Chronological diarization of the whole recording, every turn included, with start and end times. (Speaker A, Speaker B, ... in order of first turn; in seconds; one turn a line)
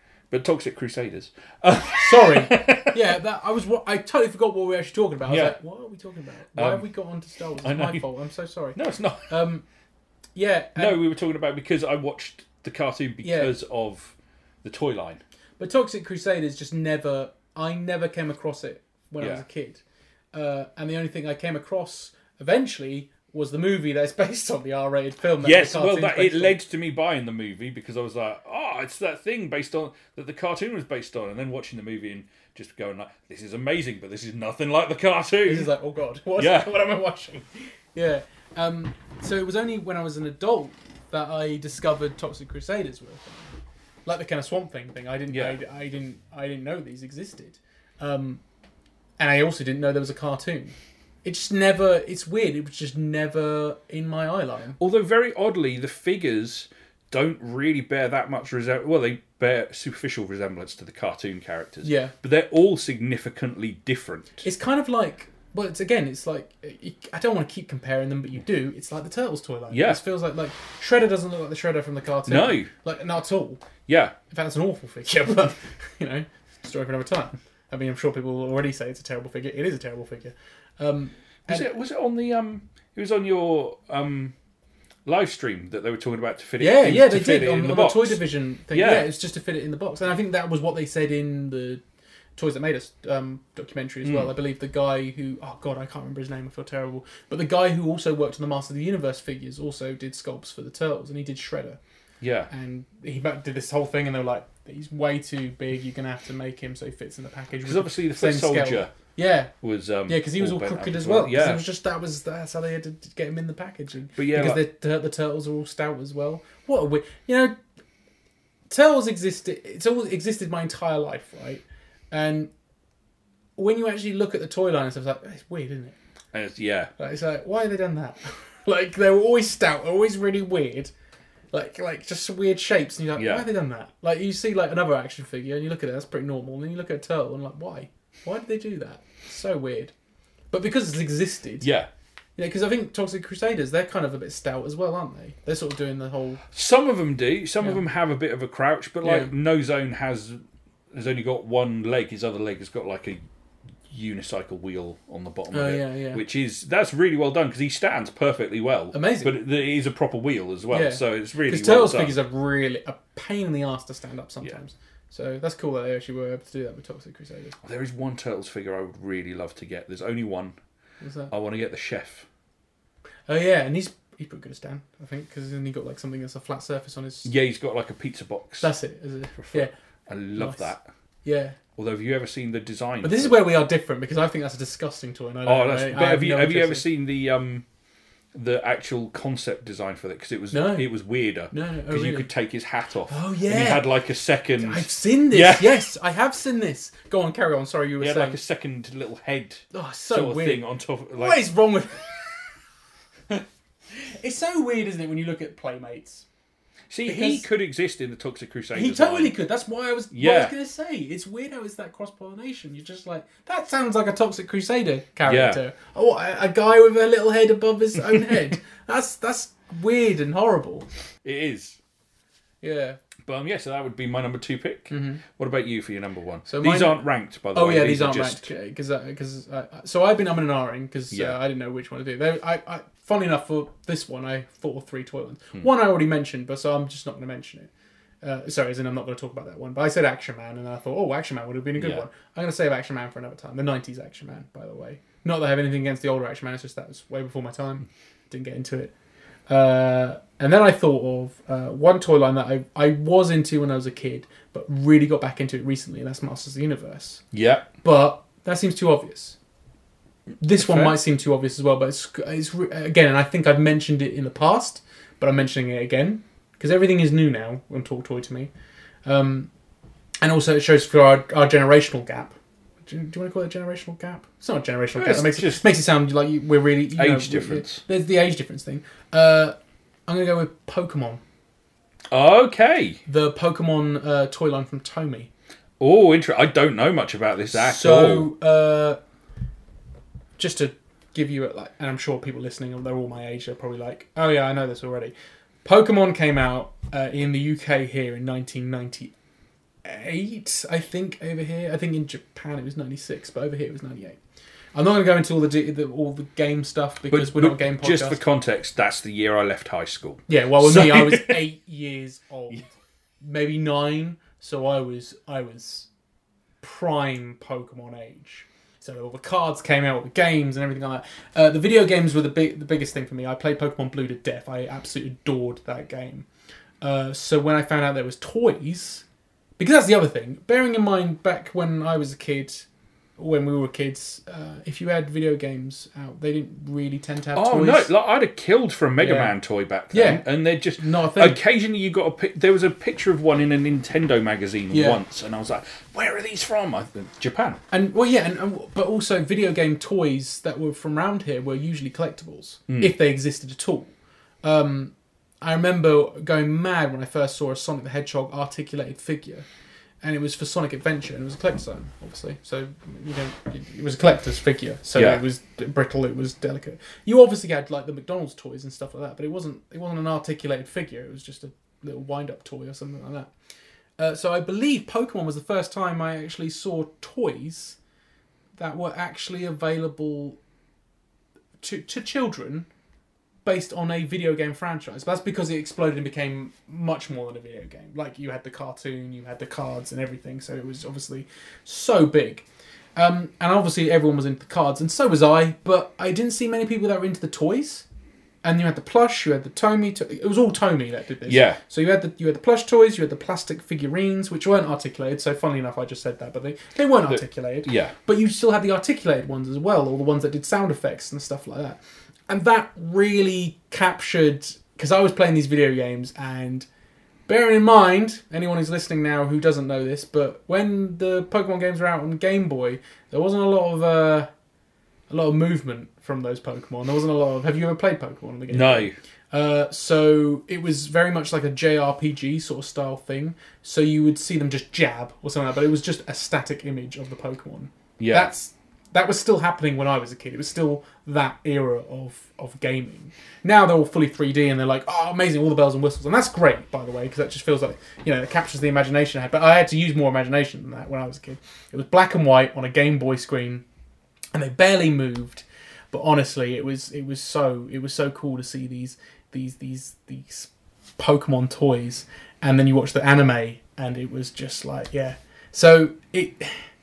Speaker A: 0.3-3.0
Speaker B: 2.0-9.6
Speaker A: 5.3-5.6
Speaker A: 6.5-6.9
Speaker A: 7.6-8.1
Speaker A: 8.8-9.3
Speaker B: 10.3-11.0
Speaker A: 10.8-15.2
Speaker B: 13.2-13.5
Speaker B: 15.6-19.8
Speaker B: 20.3-26.6
Speaker A: 25.4-35.7
Speaker B: 35.5-43.5
Speaker A: 36.4-36.7
Speaker B: 44.1-48.4
Speaker A: 45.3-45.6
Speaker B: 49.2-54.8
Speaker A: 54.8-64.4
Speaker B: 61.8-62.1
Speaker B: 64.4-73.6
Speaker A: 69.7-70.0
Speaker A: 72.3-72.7
Speaker A: 73.9-74.2
Speaker B: 74.3-81.7
Speaker A: 81.5-84.3
Speaker A: 85.0-89.1
Speaker B: 86.6-91.8
Speaker B: 92.4-101.8
Speaker A: 94.0-94.3
Speaker A: 102.2-102.5
Speaker B: 102.5-109.5
Speaker A: 107.6-109.0
Speaker A: 109.6-111.6
Speaker B: 110.1-117.6
Speaker A: 114.2-114.6
Speaker B: 118.7-122.5
Speaker B: 123.6-126.0
Speaker A: 126.3-126.9
Speaker B: 127.0-130.9
Speaker B: 131.5-139.9
Speaker A: 133.2-133.5
Speaker B: 140.5-141.7
Speaker A: 141.6-141.9
Speaker B: 142.4-146.4
Speaker A: 146.5-150.4
Speaker B: 149.0-149.3
Speaker A: 150.9-153.2
Speaker A: 153.9-162.2
Speaker B: 155.5-156.2
Speaker B: 158.9-159.3
Speaker B: 160.7-167.6
Speaker A: 167.6-170.6
Speaker B: 171.0-171.3
Speaker A: 171.3-172.3
Speaker B: 173.3-177.3
Speaker A: 177.2-178.7
Speaker B: 178.6-179.7
Speaker A: 179.4-180.9
Speaker B: 180.4-180.7
Speaker B: 181.2-181.6
Speaker A: 181.8-183.4
Speaker B: 183.0-186.9
Speaker A: 185.5-187.7
Speaker A: 188.3-195.9
Speaker B: 190.5-190.9
Speaker B: 191.5-192.3
Speaker B: 193.1-193.9
Speaker B: 194.6-198.4
Speaker A: 198.0-201.4
Speaker B: 199.7-200.6
Speaker B: 201.2-202.6
Speaker B: 203.9-206.3
Speaker A: 206.9-209.4
Speaker B: 207.1-207.4
Speaker B: 208.7-220.9
Speaker A: 210.1-210.5
Speaker A: 215.2-215.6
Speaker A: 221.2-221.8
Speaker B: 222.6-223.0
Speaker A: 223.2-228.5
Speaker B: 224.9-225.2
Speaker B: 226.5-237.7
Speaker A: 231.1-231.4
Speaker B: 238.2-248.9
Speaker A: 241.8-242.1
Speaker B: 249.5-257.2
Speaker A: 257.3-257.7
Speaker B: 257.8-259.4
Speaker B: 260.4-268.5
Speaker A: 260.6-261.0
Speaker B: 269.1-269.5
Speaker B: 270.2-279.6
Speaker A: 275.0-275.6
Speaker A: 277.0-277.8
Speaker B: 280.1-281.2
Speaker A: 282.1-283.0
Speaker B: 283.1-285.3
Speaker A: 285.8-288.3
Speaker B: 287.5-289.0
Speaker B: 290.4-299.1
Speaker B: 299.8-304.2
Speaker B: 304.7-308.2
Speaker A: 307.1-311.4
Speaker B: 310.3-315.9
Speaker B: 316.6-326.3
Speaker B: 326.8-329.0
Speaker B: 329.6-332.7
Speaker B: 333.2-337.9
Speaker A: 337.4-347.6
Speaker B: 339.0-339.3
Speaker B: 339.9-340.3
Speaker B: 340.8-341.4
Speaker B: 344.7-345.0
Speaker B: 347.7-353.9
Speaker A: 352.7-352.9
Speaker B: 354.4-359.5
Speaker B: 360.0-373.3
Speaker A: 365.0-365.2
Speaker B: 374.0-377.8
Speaker B: 378.6-380.4
Speaker B: 381.6-382.7
Speaker B: 383.4-397.9
Speaker B: 398.4-416.7
Speaker A: 401.3-401.6
Speaker A: 407.1-407.9
Speaker B: 417.3-424.3
Speaker B: 425.1-453.6
Speaker A: 428.5-429.0
Speaker A: 438.0-438.3
Speaker B: 454.3-466.7